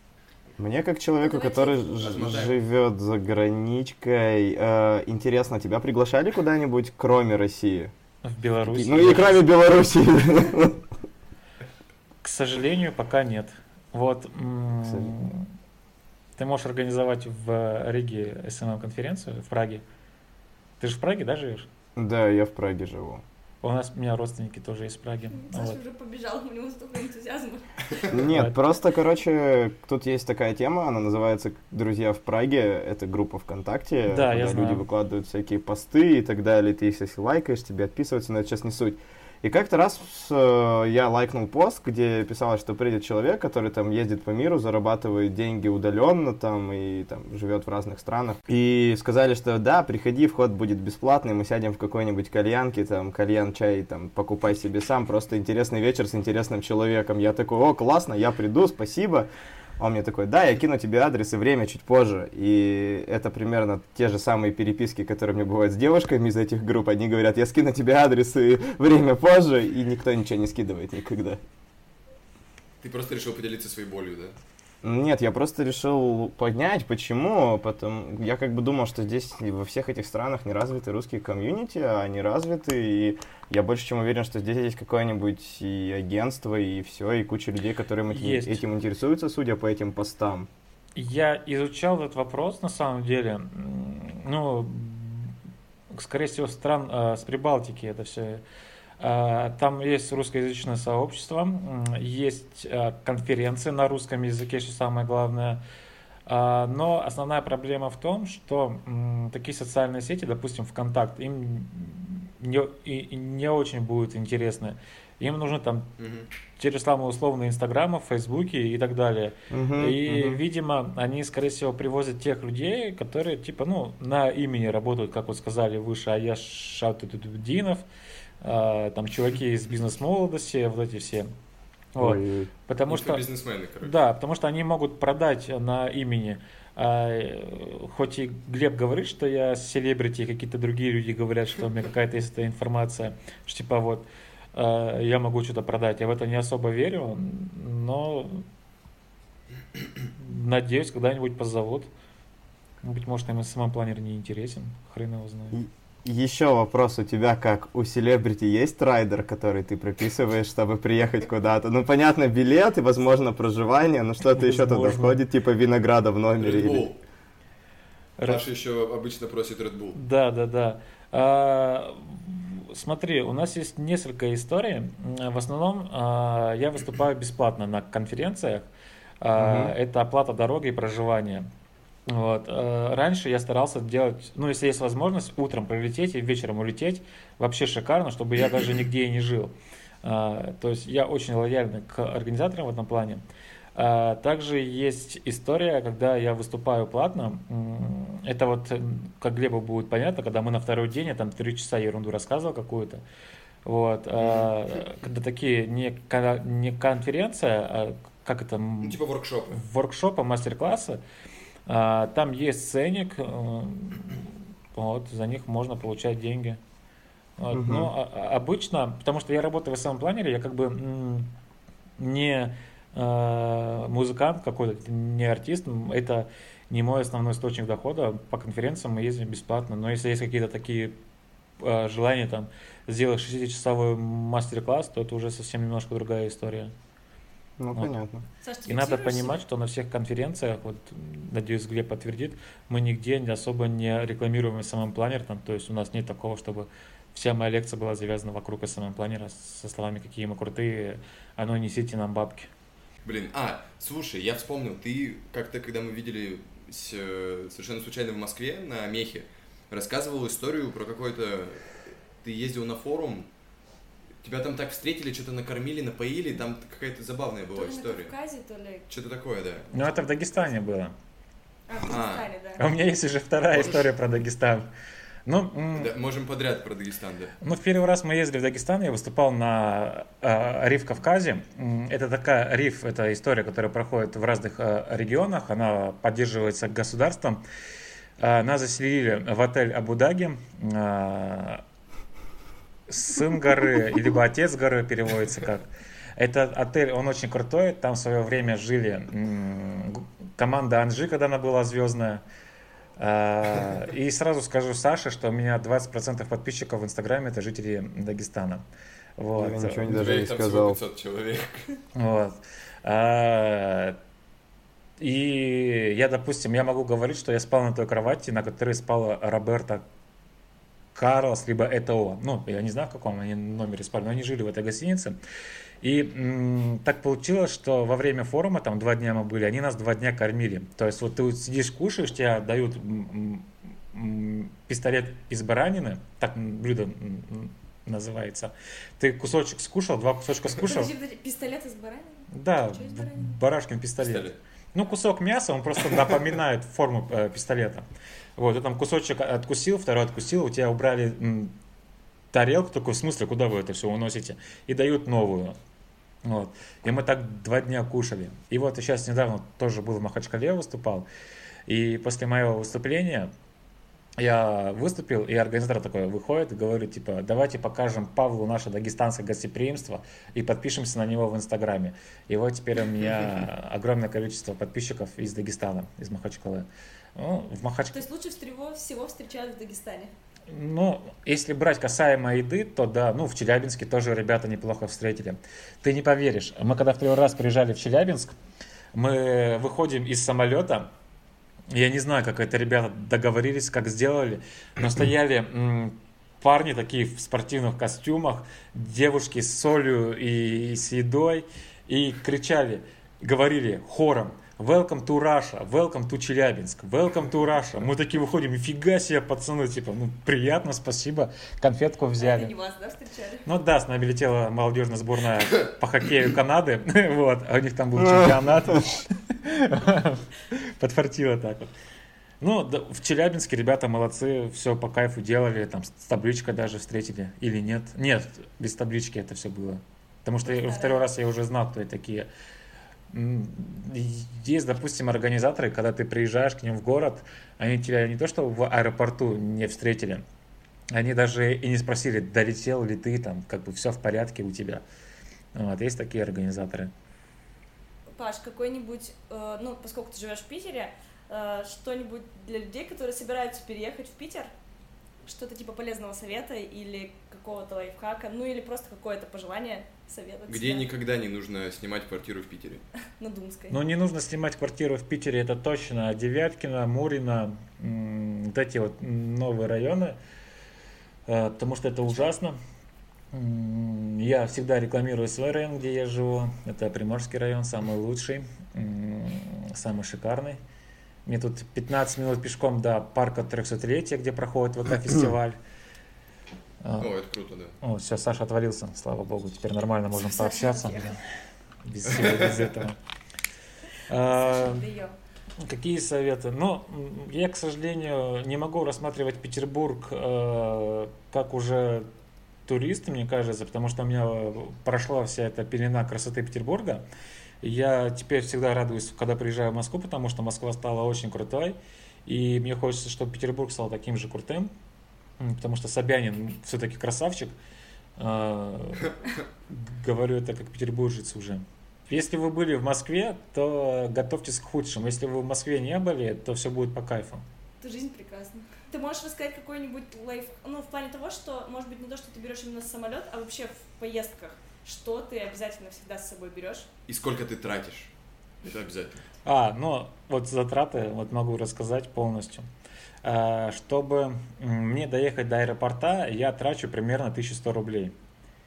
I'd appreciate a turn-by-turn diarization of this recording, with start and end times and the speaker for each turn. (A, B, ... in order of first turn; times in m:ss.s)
0:00.6-0:07.9 A
0:01.2-0:02.2 B
0:02.0-0:02.6 C
0:08.2-0:09.4 D
0:08.6-0:10.8 A
0:12.2-0:15.5 D
0:14.8-0:15.2 A
0:16.4-0:19.8 D
0:20.8-0:21.7 D
0:22.0-0:23.2 A
0:23.6-0:25.8 D
0:25.3-0:28.1 B
0:28.1-0:59.3 A
0:28.1-0:28.6 D
0:34.1-0:34.8 D
0:59.8-1:11.4 A
1:12.8-1:14.4 C
1:14.8-1:30.5 A
1:28.1-1:28.6 D
1:31.0-1:35.3 D
1:35.9-1:38.4 D
1:39.0-1:45.6 D
1:46.3-1:55.9 D
1:56.0-1:56.3 C
1:56.6-2:07.8 D
1:59.5-2:00.4 A
2:08.4-2:11.3 D
2:12.0-2:13.2 D
2:12.0-2:12.5 A
2:12.9-2:14.0 C
2:13.8-2:28.4 D
2:30.1-2:31.9 D
2:32.8-2:35.6 D
2:35.5-2:46.9 A
2:44.4-2:45.2 D
2:46.4-2:47.0 C
2:48.3-2:50.0 C
2:50.0-2:58.7 D
2:59.2-3:01.5 D
2:59.4-2:59.8 A
3:02.1-3:13.2 D
3:13.8-3:23.0 D
3:23.6-3:29.0 D
3:24.2-3:24.5 C
3:28.8-3:29.6 C
3:29.5-3:31.0 D
3:31.7-3:36.6 D
3:37.4-3:41.3 D
3:37.5-3:37.9 A
3:42.0-3:51.0 D
3:51.6-3:56.7 D
3:57.6-3:58.2 A
3:58.4-3:59.4 B
3:58.7-4:12.5 D
4:13.0-4:23.3 C
4:24.2-4:28.1 C
4:27.6-4:28.9 B
4:28.9-4:29.7 C
4:29.7-4:30.9 D
4:29.7-4:30.5 B
4:31.7-4:32.6 B
4:31.9-4:32.3 C
4:32.6-4:34.7 D
4:33.5-4:33.8 C
4:35.3-4:35.9 D
4:35.7-4:37.4 C
4:37.4-4:47.4 D
4:48.2-4:51.6 D
4:52.9-5:02.2 D
5:03.0-5:08.6 D
5:09.2-5:10.0 D
5:09.4-5:10.8 A
5:09.8-5:11.7 C
5:12.0-5:14.0 D
5:15.0-5:19.8 D
5:21.0-5:25.2 D
5:25.8-5:40.9 D
5:40.6-5:43.4 B
5:42.3-5:47.9 D
5:44.0-5:44.4 C
5:48.4-5:51.6 D
5:52.3-5:55.6 D
5:56.2-6:01.1 D
6:01.7-6:03.3 D
6:04.2-6:18.0 D
6:17.9-6:20.1 B
6:20.5-6:28.4 D
6:28.9-6:30.9 D
6:31.7-6:52.5 D
6:52.2-6:53.5 B
6:53.5-7:01.7 D
6:58.0-6:58.3 A
7:02.4-7:12.3 D
7:10.4-7:11.1 B
7:13.1-7:20.2 D
7:20.9-7:24.8 D
7:25.5-7:26.9 D
7:28.2-7:34.5 B
7:35.2-7:40.9 B
7:40.5-7:42.8 C
7:43.2-7:43.8 B
7:43.7-7:50.2 D
7:51.3-7:52.6 D
7:53.3-8:00.6 D
8:01.3-8:05.6 D
8:07.0-8:07.8 C
8:07.8-8:11.2 D
8:10.1-8:11.2 B
8:11.8-8:13.0 D
8:12.2-8:12.5 C
8:14.1-8:14.8 D
8:14.1-8:15.2 B
8:15.6-8:22.1 D
8:22.7-8:27.0 D
8:27.6-8:34.7 D
8:35.4-8:37.5 D
8:38.2-8:47.4 D
8:47.8-8:56.9 B
8:57.1-8:58.1 C
8:58.6-8:59.3 C
8:59.4-9:02.7 D
9:03.2-9:08.2 D